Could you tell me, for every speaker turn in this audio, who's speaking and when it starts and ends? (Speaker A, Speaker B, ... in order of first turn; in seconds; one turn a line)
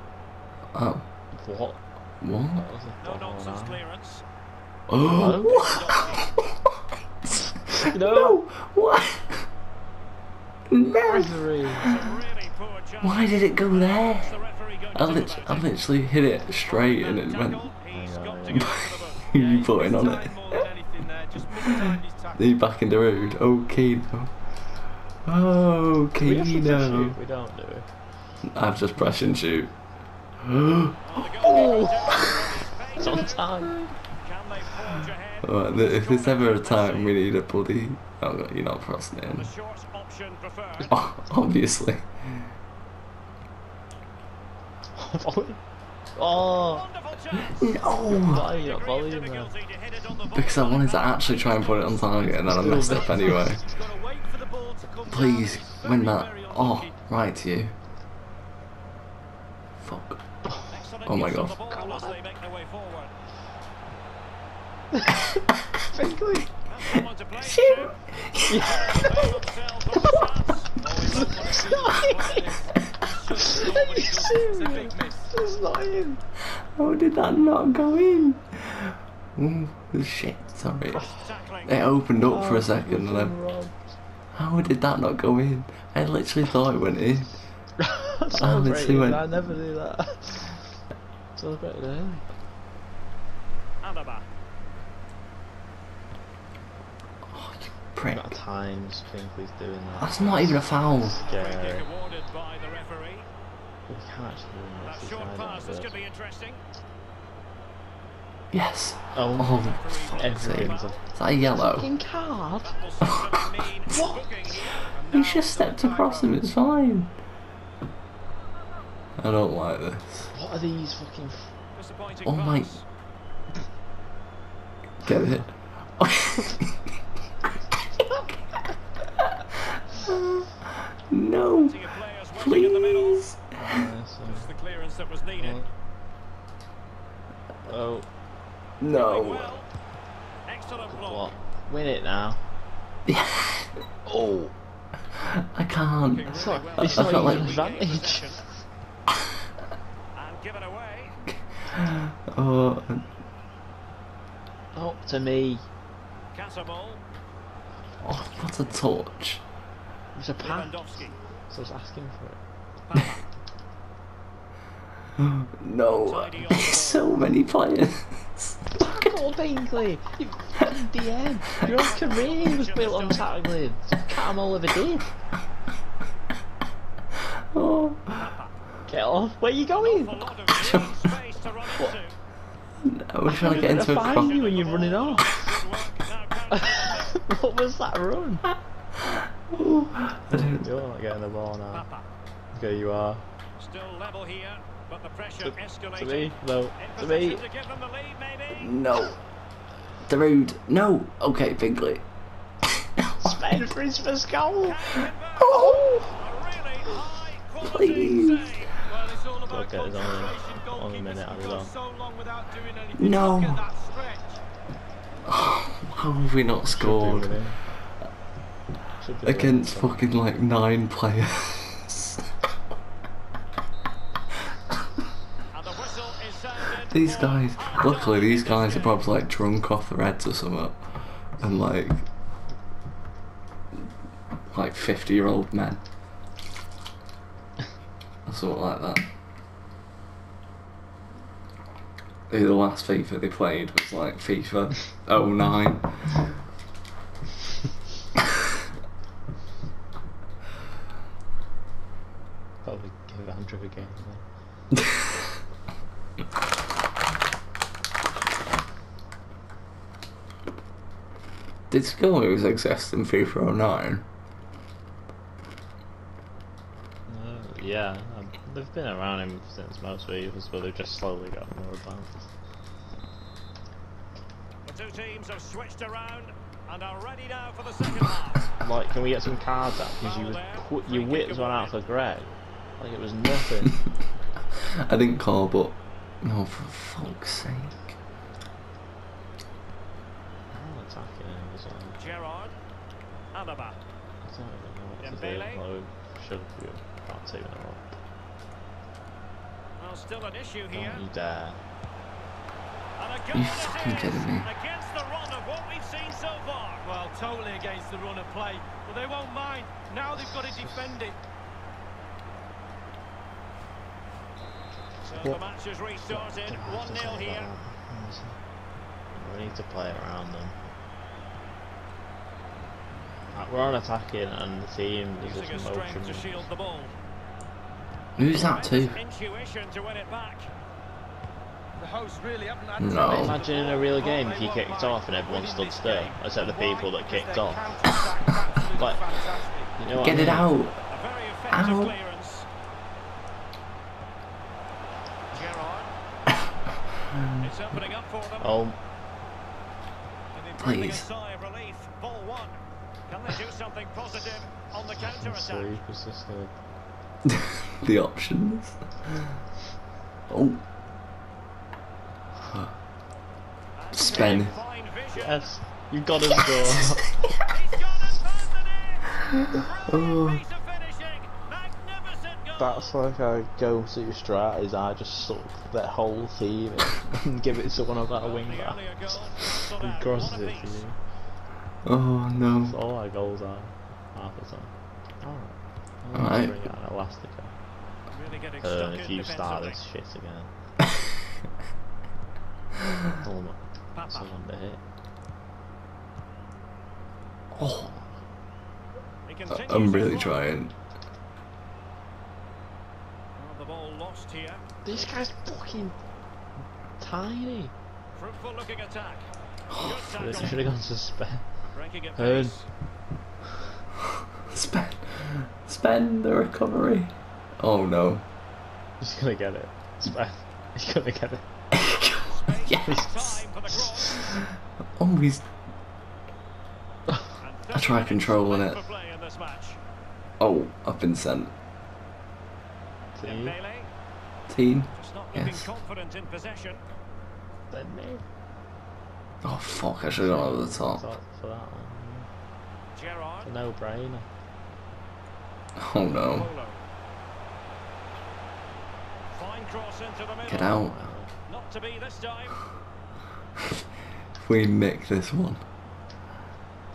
Speaker A: 0.8-1.1
Speaker B: 1.4-1.8
Speaker A: 2.2-2.7
Speaker B: 2.5-3.8
Speaker C: 3.0-4.2
Speaker A: 4.9-6.6
Speaker B: 5.0-5.9
Speaker C: 5.5-6.2
Speaker A: 7.7-9.5
Speaker B: 7.8-8.4
Speaker A: 10.7-12.0
Speaker B: 11.1-11.9
Speaker C: 11.8-15.7
Speaker A: 13.0-17.7
Speaker C: 16.7-19.3
Speaker B: 17.9-18.7
Speaker A: 18.5-20.6
Speaker D: 19.4-22.4
Speaker A: 21.7-24.4
Speaker A: 25.2-27.2
Speaker B: 26.2-27.9
Speaker A: 28.5-29.7
Speaker A: 30.4-32.3
Speaker C: 31.1-33.4
Speaker B: 31.4-32.0
Speaker B: 33.0-33.9
Speaker C: 34.2-37.1
Speaker A: 35.4-39.5
Speaker C: 39.4-40.9
Speaker A: 40.9-42.5
Speaker B: 45.0-45.6
Speaker B: 46.2-46.9
Speaker C: 46.7-47.7
Speaker A: 47.5-48.5
Speaker B: 48.2-49.5
Speaker C: 48.6-52.2
Speaker A: 50.3-53.6
Speaker B: 52.4-53.6
Speaker D: 52.8-56.9
Speaker A: 55.1-57.7
Speaker A: 59.8-60.2
Speaker B: 60.4-60.9
Speaker C: 60.7-63.1
Speaker A: 61.0-61.7
Speaker B: 61.7-62.2
Speaker B: 65.0-65.3
Speaker B: 65.9-66.5
Speaker C: 66.7-68.0
Speaker A: 67.4-68.7
Speaker B: 68.5-69.4
Speaker C: 68.7-72.4
Speaker D: 70.9-75.3
Speaker B: 71.2-72.5
Speaker B: 73.3-76.2
Speaker A: 76.6-81.1
Speaker C: 80.9-81.7
Speaker A: 81.6-83.3
Speaker B: 82.2-83.9
Speaker A: 84.3-87.3
Speaker B: 87.8-90.7
Speaker A: 88.3-89.3
Speaker B: 91.4-92.2
Speaker C: 93.8-94.2
Speaker A: 97.3-98.4
Speaker B: 98.1-101.9
Speaker A: 100.0-101.2
Speaker C: 101.2-103.3
Speaker B: 103.9-106.0
Speaker C: 104.9-106.6
Speaker A: 108.5-111.9
Speaker B: 109.2-111.0
Speaker C: 109.6-110.9
Speaker B: 111.5-112.8
Speaker C: 112.6-114.9
Speaker B: 113.9-114.6
Speaker D: 114.9-116.3
Speaker A: 115.1-117.1
Speaker A: 119.2-120.3
Speaker B: 120.3-121.5
Speaker C: 121.8-122.8
Speaker A: 122.2-122.8
Speaker A: 125.0-126.7
Speaker A: 130.0-133.9
Speaker C: 131.7-133.2
Speaker B: 133.6-134.6
Speaker C: 134.3-135.6
Speaker B: 135.4-135.7
Speaker B: 137.7-138.1
Speaker A: 138.8-139.6
Speaker C: 138.9-139.7
Speaker C: 140.5-141.3
Speaker B: 140.9-142.4
Speaker A: 143.1-143.8
Speaker B: 144.1-144.5
Speaker A: 145.1-147.6
Speaker C: 146.2-148.4
Speaker B: 146.3-148.6
Speaker C: 150.2-151.2
Speaker A: 151.3-153.1
Speaker B: 154.7-155.7
Speaker C: 156.3-157.0
Speaker A: 158.0-159.4
Speaker B: 160.1-160.9
Speaker C: 160.4-161.2
Speaker B: 161.5-162.4
Speaker C: 162.9-163.2
Speaker A: 165.2-169.0
Speaker C: 166.1-167.1
Speaker B: 168.7-175.1
Speaker C: 171.6-173.3
Speaker A: 177.5-178.3
Speaker C: 178.2-178.5
Speaker B: 178.9-180.2
Speaker C: 179.8-182.1
Speaker A: 180.6-181.0
Speaker A: 182.8-184.4
Speaker B: 183.3-185.6
Speaker C: 183.4-187.1
Speaker B: 186.5-188.4
Speaker A: 189.1-190.7
Speaker B: 190.3-191.9
Speaker C: 191.8-192.0
Speaker B: 192.5-193.2
Speaker C: 193.6-198.6
Speaker B: 195.4-197.4
Speaker A: 198.5-199.2
Speaker A: 200.1-202.1
Speaker B: 203.2-205.0
Speaker C: 204.6-205.6
Speaker A: 205.4-206.0
Speaker B: 205.6-206.0
Speaker C: 206.2-208.7
Speaker A: 207.6-208.7
Speaker D: 208.8-214.4
Speaker B: 209.5-211.7
Speaker A: 213.0-213.7
Speaker A: 215.3-217.4
Speaker B: 216.7-217.6
Speaker B: 219.0-220.1
Speaker A: 219.2-222.2
Speaker C: 225.5-229.0
Speaker A: 226.9-232.0
Speaker A: 234.5-235.8
Speaker A: 238.3-239.1
Speaker A: 242.3-246.2
Speaker B: 252.6-254.2
Speaker A: 261.7-264.1
Speaker B: 267.1-272.3
Speaker C: 274.7-278.4
Speaker B: 278.6-283.8
Speaker C: 280.0-281.7
Speaker A: 284.8-287.9
Speaker B: 290.5-292.0
Speaker C: 292.0-292.5
Speaker C: 293.4-293.8
Speaker B: 294.2-297.9
Speaker C: 295.1-295.6
Speaker C: 299.8-301.0
Speaker B: 300.7-301.6
Speaker C: 303.0-306.8
Speaker A: 303.3-304.5
Speaker D: 306.9-311.1
Speaker B: 310.2-311.0
Speaker C: 315.1-317.4
Speaker B: 316.1-318.4
Speaker B: 319.1-320.6
Speaker B: 323.3-326.5
Speaker C: 325.2-326.9
Speaker A: 328.2-329.0
Speaker C: 328.5-330.5
Speaker D: 331.8-339.7
Speaker A: 332.8-333.4
Speaker B: 333.0-337.7
Speaker B: 338.8-339.0
Speaker B: 339.8-340.5
Speaker A: 339.9-340.9
Speaker C: 340.9-342.5
Speaker A: 341.5-342.0
Speaker C: 345.3-345.9
Speaker A: 347.1-347.5
Speaker C: 347.4-348.5
Speaker B: 348.4-348.8
Speaker C: 350.4-355.7
Speaker A: 350.6-351.1
Speaker B: 354.8-356.5
Speaker A: 357.3-358.8
Speaker A: 360.3-360.6
Speaker C: 363.8-365.4
Speaker A: 363.9-364.6
Speaker B: 365.1-367.1
Speaker C: 367.5-372.8
Speaker A: 369.6-370.4
Speaker B: 372.6-381.0
Speaker C: 378.3-380.8
Speaker A: 381.9-382.8
Speaker B: 382.6-387.5
Speaker A: 386.1-386.6
Speaker C: 388.2-389.7
Speaker B: 388.6-390.5
Speaker B: 393.2-394.8
Speaker A: 397.5-397.9
Speaker C: 399.3-400.4
Speaker A: 399.5-400.7
Speaker C: 403.4-404.6
Speaker B: 404.9-406.0
Speaker B: 407.0-407.7
Speaker C: 408.2-409.2
Speaker A: 409.7-410.5
Speaker C: 409.9-410.5
Speaker B: 410.1-411.4
Speaker C: 411.8-412.6
Speaker B: 412.1-412.6
Speaker A: 414.5-418.2
Speaker B: 419.0-421.4
Speaker A: 421.7-423.4
Speaker C: 422.3-424.1
Speaker B: 423.9-424.2
Speaker A: 425.0-425.5
Speaker C: 427.4-429.8
Speaker A: 427.7-428.8
Speaker A: 430.4-431.5
Speaker B: 433.1-433.6
Speaker C: 433.2-433.9
Speaker A: 434.5-435.7
Speaker C: 435.0-436.8
Speaker B: 437.7-438.2
Speaker A: 439.4-441.0
Speaker B: 440.2-442.3
Speaker C: 443.0-443.4
Speaker B: 443.4-444.3
Speaker A: 445.8-446.5
Speaker C: 446.4-446.8
Speaker C: 449.4-450.7
Speaker A: 450.4-451.0
Speaker B: 450.7-451.3
Speaker C: 451.5-452.6
Speaker A: 454.4-455.6